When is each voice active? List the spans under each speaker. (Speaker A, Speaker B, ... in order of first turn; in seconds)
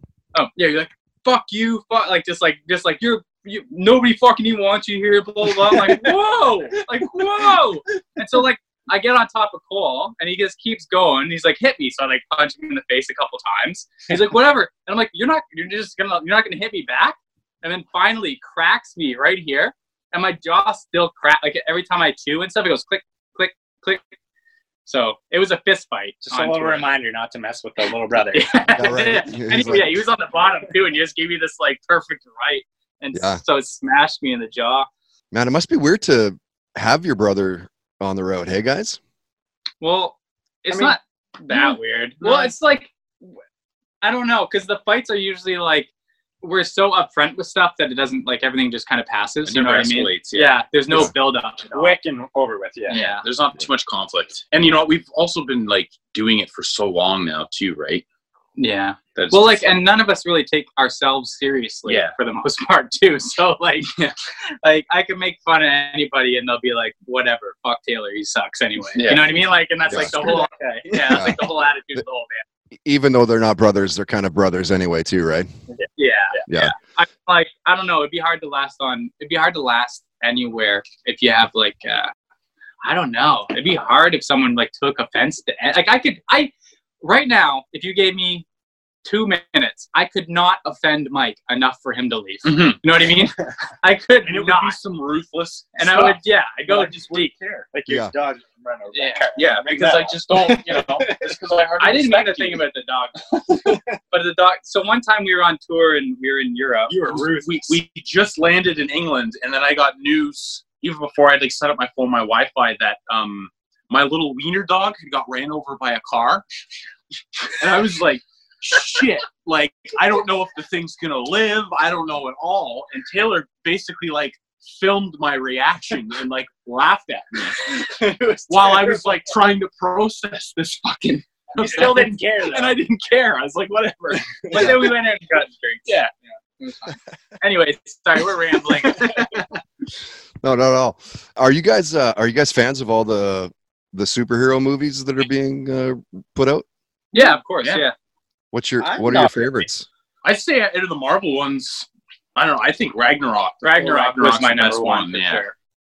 Speaker A: 0.3-24.0, 24.9-26.9, 28.3-34.9, 39.8-43.3, 44.0-45.9, 46.4-51.9, 52.9-53.2, 58.6-63.9, 64.6-72.4, 76.0-82.1, 82.8-88.4, 89.0-94.8, 95.8-97.3, 98.9-99.2, 101.8-106.9, 131.6-132.0, 134.5-135.9, 137.4-139.3, 147.1-147.9, 153.6-155.5
Speaker B: 26.2-28.7, 40.7-41.0, 41.5-42.5, 51.7-53.0, 70.1-71.3, 97.7-101.3, 103.5-103.8, 106.9-107.8, 127.7-129.2, 131.6-132.8, 139.0-139.4, 148.8-149.7
Speaker C: 28.7-30.0, 33.1-33.4, 35.3-39.0, 69.9-70.2, 71.1-71.4, 72.8-75.5, 76.5-76.7, 97.9-98.1, 140.4-146.7, 148.5-149.9
Speaker D: 49.5-50.5, 52.9-58.0, 59.1-59.8, 61.9-62.1, 69.0-69.3, 92.4-92.8, 94.2-96.2, 96.7-97.7, 99.3-102.6, 107.0-116.4, 117.5-127.7, 128.5-134.9, 135.9-136.1, 150.2-155.4